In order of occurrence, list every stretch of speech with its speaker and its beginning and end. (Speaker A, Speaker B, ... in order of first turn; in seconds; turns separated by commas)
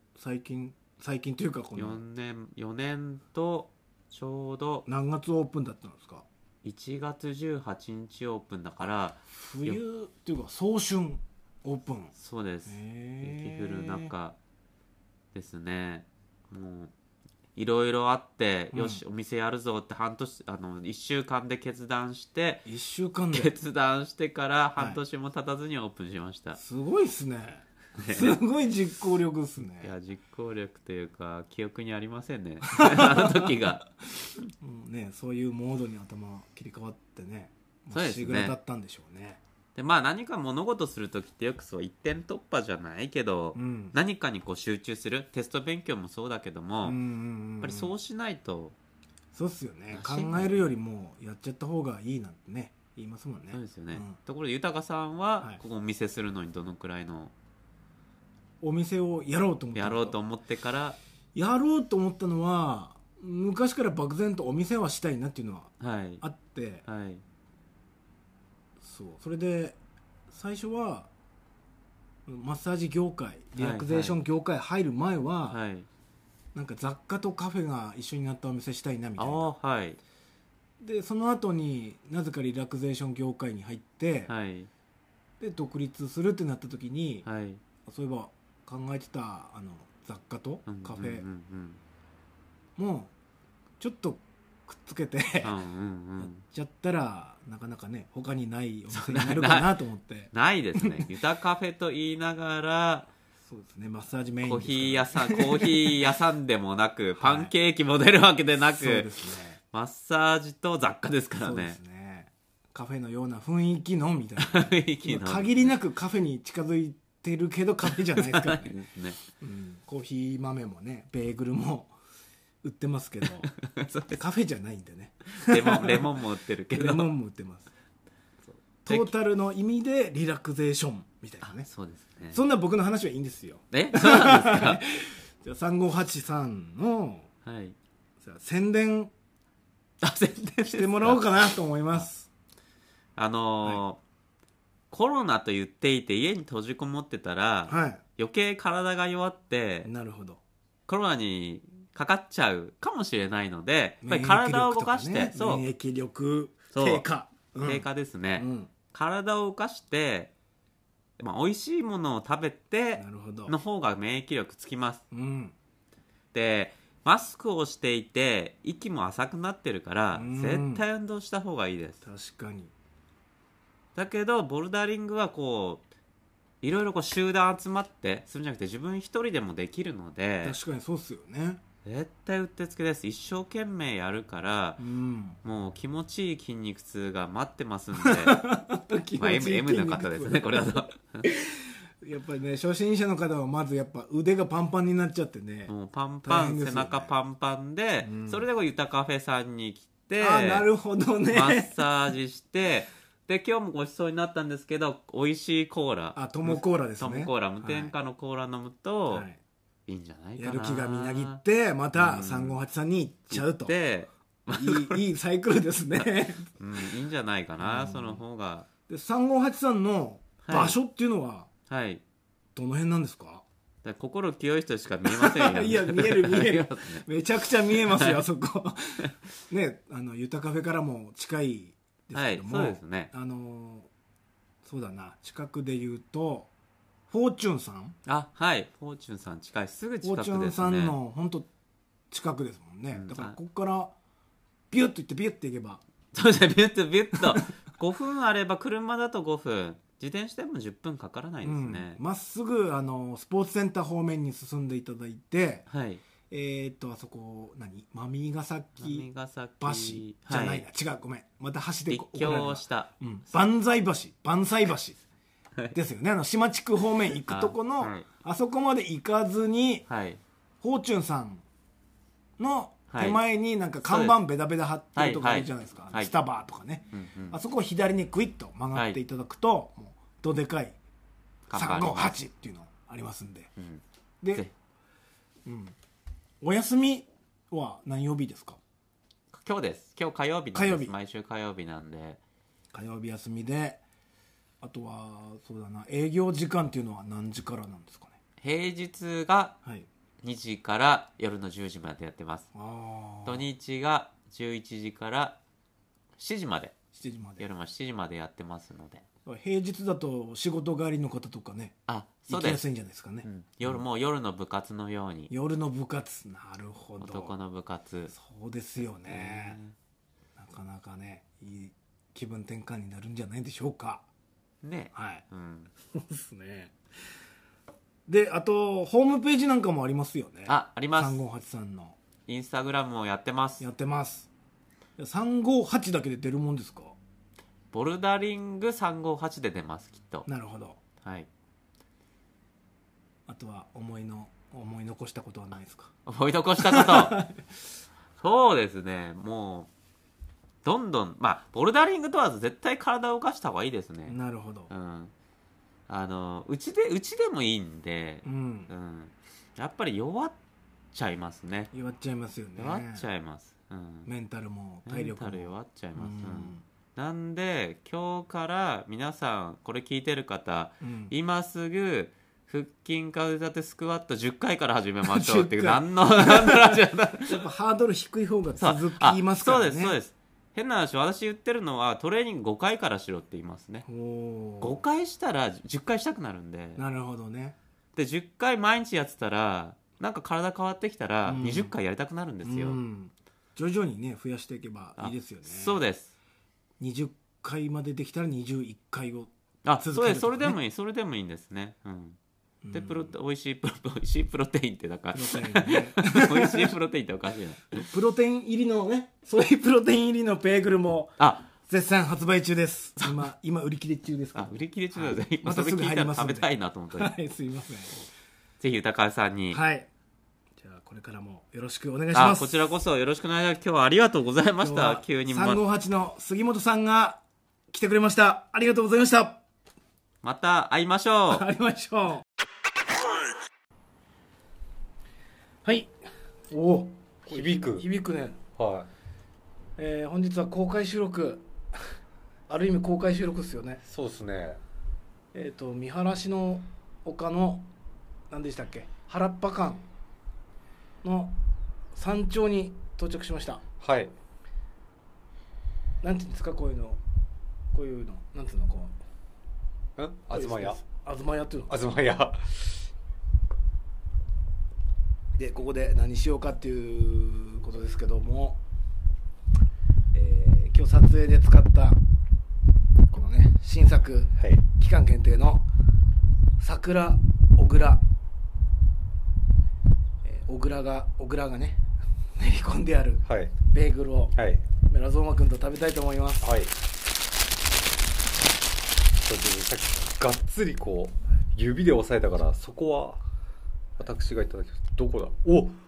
Speaker A: 0.2-2.0, Speaker B: 1.8-4.8, Speaker A: 4.9-6.3, Speaker B: 6.6-9.8, Speaker A: 9.3-12.1, Speaker B: 12.2-14.4, Speaker A: 12.7-14.1, Speaker B: 15.3-16.9, Speaker B: 17.6-22.7, Speaker A: 18.7-19.0, Speaker A: 22.7-23.5, Speaker B: 23.3-26.6, Speaker A: 26.6-29.9, Speaker B: 28.0-28.4, Speaker B: 29.8-33.9, Speaker A: 32.7-33.5, Speaker A: 34.6-39.4, Speaker B: 37.9-38.5, Speaker B: 39.8-47.0, Speaker A: 43.5-44.0, Speaker A: 46.8-47.9, Speaker B: 47.6-48.8, Speaker A: 49.3-54.2, Speaker B: 49.9-50.6, Speaker B: 53.5-57.3, Speaker A: 58.6-60.2, Speaker B: 59.8-61.0, Speaker A: 61.4-66.8, Speaker B: 65.8-66.2, Speaker B: 66.9-67.2, Speaker A: 68.8-69.8, Speaker A: 70.3-71.1, Speaker A: 72.3-75.6, Speaker B: 73.6-74.2, Speaker B: 75.5-75.9, Speaker A: 76.5-79.5, Speaker B: 79.2-80.0, Speaker A: 80.8-84.3, Speaker B: 84.3-84.7, Speaker A: 85.4-87.3, Speaker B: 87.2-87.6, Speaker A: 87.9-91.2, Speaker B: 90.7-91.8, Speaker A: 92.8-93.1, Speaker A: 93.8-95.6, Speaker B: 95.4-96.4, Speaker A: 96.2-101.1, Speaker B: 98.9-99.8, Speaker B: 100.3-103.1, Speaker A: 103.5-106.1, Speaker B: 104.4-109.1, Speaker A: 107.2-107.5, Speaker A: 108.6-109.6, Speaker B: 109.7-111.8, Speaker A: 111.4-118.7, Speaker B: 114.4-115.7, Speaker B: 118.0-119.2, Speaker A: 119.4-121.9, Speaker A: 122.6-123.5, Speaker B: 123.5-124.2, Speaker A: 124.1-126.2, Speaker B: 125.4-127.1, Speaker A: 126.7-127.7, Speaker A: 128.8-131.7, Speaker B: 128.9-129.1, Speaker B: 131.4-132.4, Speaker A: 132.3-137.3, Speaker B: 133.7-134.8, Speaker B: 137.5-137.8, Speaker A: 138.2-139.1, Speaker B: 140.0-141.2, Speaker A: 140.7-142.3, Speaker B: 143.2-144.0, Speaker B: 144.9-149.9, Speaker A: 147.7-148.0, Speaker A: 149.8-150.4, Speaker B: 150.9-155.7, Speaker A: 154.0-158.7, Speaker B: 156.7-157.1, Speaker B: 157.6-160.3, Speaker B: 161.2-165.0, Speaker A: 163.0-163.6, Speaker A: 165.1-165.5, Speaker B: 166.3-172.0, Speaker A: 170.1-170.8, Speaker A: 172.0-172.7, Speaker B: 173.9-175.8, Speaker B: 176.6-180.6, Speaker A: 180.4-181.6, Speaker B: 181.8-184.8, Speaker A: 184.8-185.4, Speaker B: 185.4-188.4, Speaker A: 188.0-195.7, Speaker B: 189.2-191.3, Speaker B: 195.7-200.7, Speaker A: 196.2-197.1, Speaker A: 198.0-198.4, Speaker A: 200.2-201.8, Speaker B: 201.3-209.3, Speaker A: 206.2-207.9, Speaker A: 209.1-209.4, Speaker B: 209.9-211.4, Speaker A: 210.4-213.8, Speaker B: 212.0-212.6, Speaker B: 213.3-215.0, Speaker A: 214.5-216.5, Speaker B: 216.6-218.7, Speaker A: 217.6-218.2, Speaker A: 218.9-221.5, Speaker B: 220.4-220.8, Speaker B: 221.7-222.0, Speaker A: 222.6-223.4, Speaker B: 223.8-227.1, Speaker A: 225.1-233.9, Speaker B: 227.7-228.2, Speaker B: 232.1-233.1, Speaker A: 234.6-236.5, Speaker A: 237.1-238.0, Speaker B: 238.1-241.0, Speaker A: 240.0-241.5, Speaker A: 242.1-243.9, Speaker B: 242.9-243.4, Speaker A: 244.7-245.8, Speaker B: 246.1-252.0, Speaker A: 251.4-255.7, Speaker B: 255.7-256.0, Speaker A: 256.3-259.1, Speaker B: 258.8-260.6, Speaker A: 259.6-265.0, Speaker B: 261.9-262.9, Speaker A: 265.7-269.9, Speaker B: 267.3-268.1, Speaker B: 269.9-270.2, Speaker A: 270.6-271.4, Speaker A: 272.4-280.8, Speaker B: 272.9-273.2, Speaker B: 273.9-274.2, Speaker B: 275.0-276.1, Speaker B: 276.9-277.4, Speaker B: 281.5-282.2, Speaker A: 281.5-283.5, Speaker B: 283.6-283.8, Speaker A: 285.5-285.8, Speaker A: 286.4-288.6, Speaker B: 289.3-292.2, Speaker A: 290.5-290.9, Speaker A: 292.7-293.8, Speaker A: 294.6-298.2, Speaker B: 298.4-299.6, Speaker B: 300.2-302.5, Speaker A: 302.5-303.5, Speaker B: 303.2-305.4, Speaker B: 306.2-306.8, Speaker A: 306.9-307.5, Speaker B: 307.4-309.1, Speaker A: 309.2-313.8, Speaker B: 311.9-312.7, Speaker B: 313.2-315.3, Speaker A: 315.3-317.4, Speaker B: 317.0-318.1, Speaker A: 318.1-319.6, Speaker B: 319.1-319.7, Speaker A: 320.4-324.0, Speaker B: 324.6-325.7, Speaker A: 324.9-325.2, Speaker A: 325.9-326.8, Speaker A: 328.1-332.0, Speaker B: 330.5-331.2, Speaker B: 332.3-333.6, Speaker A: 333.6-334.3, Speaker A: 335.0-337.0, Speaker B: 337.7-340.3, Speaker A: 340.3-340.8, Speaker B: 341.0-341.3, Speaker A: 343.3-345.9, Speaker B: 346.1-347.2, Speaker A: 346.6-347.4, Speaker B: 348.2-349.7, Speaker B: 350.6-354.1, Speaker A: 354.1-354.7, Speaker B: 354.7-355.1, Speaker B: 355.9-360.4, Speaker A: 358.2-358.7, Speaker B: 360.9-361.7, Speaker A: 361.7-363.1, Speaker B: 362.6-364.1, Speaker A: 364.1-366.6, Speaker B: 364.9-377.4, Speaker A: 370.8-371.1, Speaker A: 375.1-379.9, Speaker B: 378.6-383.9, Speaker A: 383.9-384.8, Speaker B: 384.6-386.8, Speaker A: 386.8-387.6, Speaker B: 388.0-392.8, Speaker A: 391.3-391.8, Speaker A: 392.4-395.8, Speaker B: 395.0-396.1, Speaker A: 396.8-400.6, Speaker B: 399.6-402.2, Speaker A: 402.6-403.1, Speaker B: 402.7-407.8, Speaker A: 405.1-406.8, Speaker A: 407.8-417.9, Speaker B: 411.2-411.5, Speaker B: 414.4-417.1, Speaker B: 418.6-419.6, Speaker A: 419.5-419.9, Speaker A: 420.6-422.8, Speaker B: 422.1-425.6, Speaker A: 424.6-429.4, Speaker B: 430.2-431.5, Speaker A: 431.3-432.2, Speaker A: 435.6-435.9, Speaker A: 436.5-438.4, Speaker C: 437.3-437.9, Speaker C: 438.6-438.9, Speaker A: 439.8-441.9, Speaker A: 442.5-443.8, Speaker C: 443.9-444.6, Speaker A: 445.3-447.7, Speaker A: 448.3-449.9, Speaker A: 451.0-451.4, Speaker A: 451.9-453.6, Speaker C: 453.8-454.1, Speaker A: 456.0-457.0, Speaker A: 457.7-459.0, Speaker C: 460.0-460.8, Speaker A: 460.3-461.8, Speaker C: 461.7-462.8, Speaker A: 465.4-468.6, Speaker A: 470.1-472.0, Speaker A: 473.1-475.7, Speaker C: 474.4-474.6, Speaker A: 476.6-478.0, Speaker A: 480.2-481.8, Speaker A: 482.4-486.6, Speaker C: 483.3-483.6, Speaker C: 484.4-484.6, Speaker C: 486.4-486.8, Speaker C: 489.2-493.2, Speaker C: 494.0-495.8